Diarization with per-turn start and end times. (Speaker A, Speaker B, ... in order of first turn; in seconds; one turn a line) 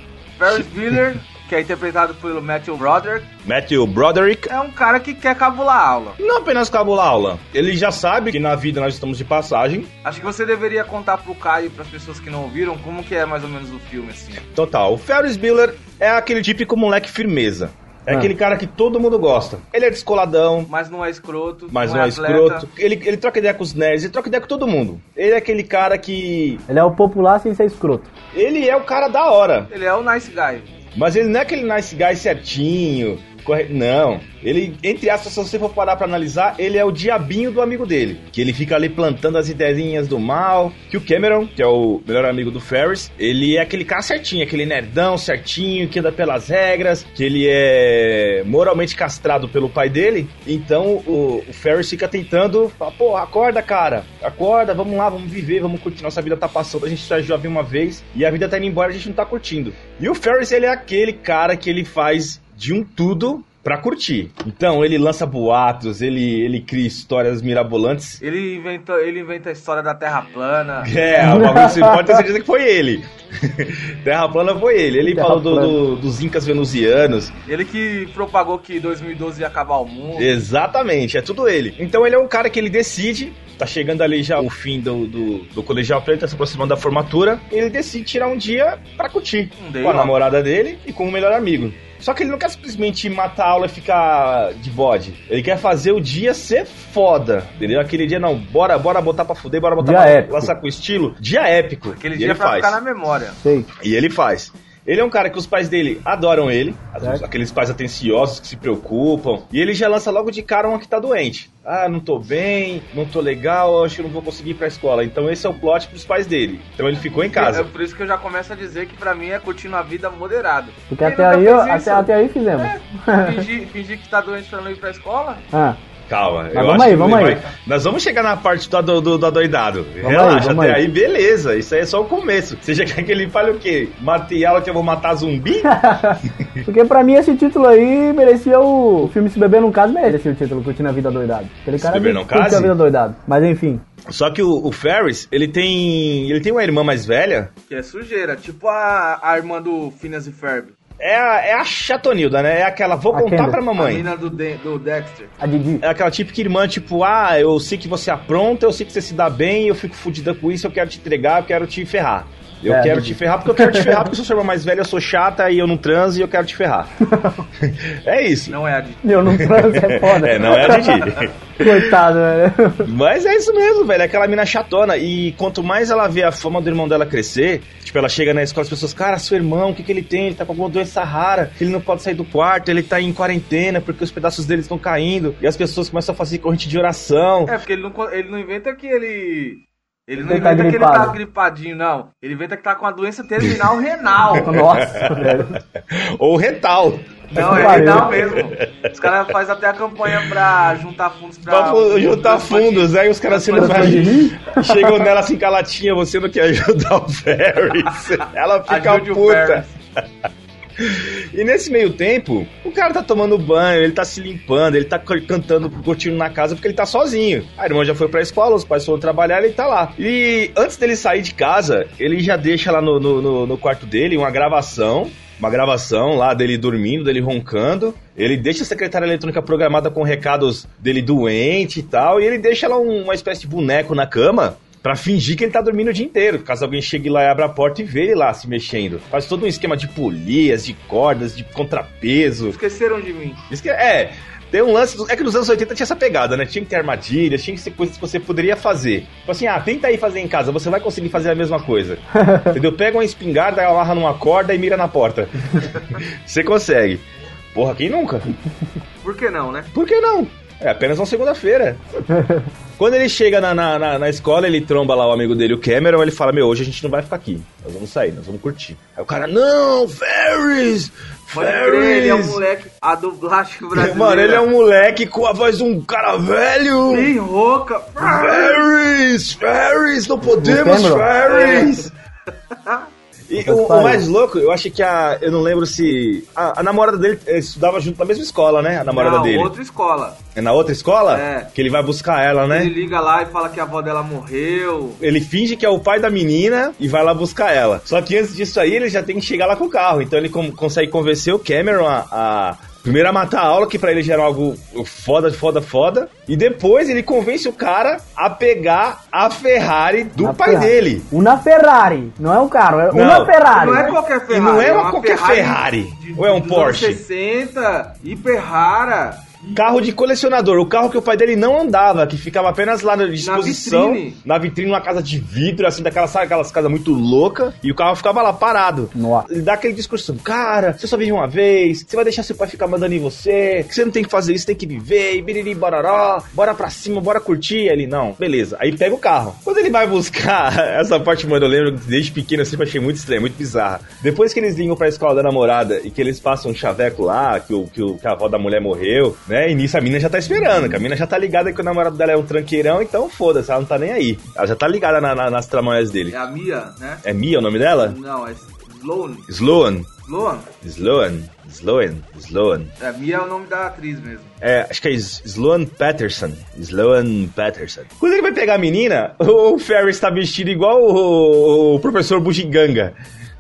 Speaker A: 0.4-3.3
Speaker B: 3.4-4.5
Speaker A: 4.5-6.2
Speaker B: 6.2-9.9
Speaker A: 10.0-14.4
Speaker B: 14.5-20.7
Speaker A: 20.7-22.7
Speaker B: 21.7-26.6
Speaker C: 26.7-28.1
Speaker B: 28.3-29.7
Speaker A: 29.7-30.7
Speaker B: 30.9-68.2
Speaker A: 68.2-70.9
Speaker B: 70.8-77.3
Speaker C: 71.2-72.2
Speaker C: 75.1-75.8
Speaker A: 77.5-80.3
Speaker B: 80.2-102.8
Speaker A: 89.6-90.2
Speaker C: 99.8-100.5
Speaker A: 102.0-103.4
Speaker C: 103.4-103.7
Speaker B: 103.8-117.7
Speaker A: 117.3-125.4
Speaker C: 120.9-123.5
Speaker C: 125.5-125.8
Speaker B: 126.1-135.8
Speaker C: 126.5-127.4
Speaker C: 130.0-130.8
Speaker C: 135.7-143.8
Speaker B: 141.8-142.8
Speaker B: 144.1-147.5
Speaker A: 147.7-150.8
Speaker B: 151.0-154.1
Speaker C: 153.1-153.6
Speaker A: 153.8-155.3
Speaker C: 155.4-155.8
Speaker B: 155.8-166.9
Speaker C: 162.7-164.1
Speaker C: 167.0-167.4
Speaker B: 167.6-168.6
Speaker A: 168.5-169.0
Speaker C: 169.0-172.9
Speaker B: 169.2-172.0
Speaker B: 172.8-187.6
Speaker A: 187.5-194.5
Speaker C: 190.2-191.2
Speaker C: 194.3-195.6
Speaker B: 194.5-198.7
Speaker A: 197.3-204.1
Speaker C: 197.4-198.2
Speaker B: 201.5-209.7
Speaker C: 203.6-205.0
Speaker A: 208.7-209.7
Speaker B: 210.8-242.6
Speaker A: 242.5-243.4
Speaker B: 243.5-258.3
Speaker C: 252.2-252.5
Speaker A: 259.0-259.7
Speaker B: 259.7-261.8
Speaker C: 262.1-262.4
Speaker B: 262.8-272.4
Speaker A: 271.3-274.5
Speaker B: 273.7-277.1
Speaker A: 276.9-278.7
Speaker B: 278.0-281.9
Speaker C: 280.3-281.1
Speaker A: 281.2-281.9
Speaker A: 282.5-282.9
Speaker B: 283.3-289.5
Speaker C: 283.4-284.1
Speaker A: 288.9-290.2
Speaker B: 290.4-292.7
Speaker A: 291.1-291.5
Speaker A: 292.5-295.0
Speaker B: 295.0-311.1
Speaker C: 310.2-314.0
Speaker B: 312.9-313.4
Speaker A: 313.5-319.4
Speaker B: 314.3-317.0
Speaker B: 319.6-356.3
Speaker A: 323.2-324.2
Speaker C: 328.9-329.3
Speaker A: 356.1-357.0
Speaker B: 357.0-358.0
Speaker A: 357.8-359.3
Speaker B: 359.3-359.9
Speaker A: 360.1-360.5
Speaker B: 360.6-362.7
Speaker A: 362.8-364.4
Speaker B: 364.4-372.9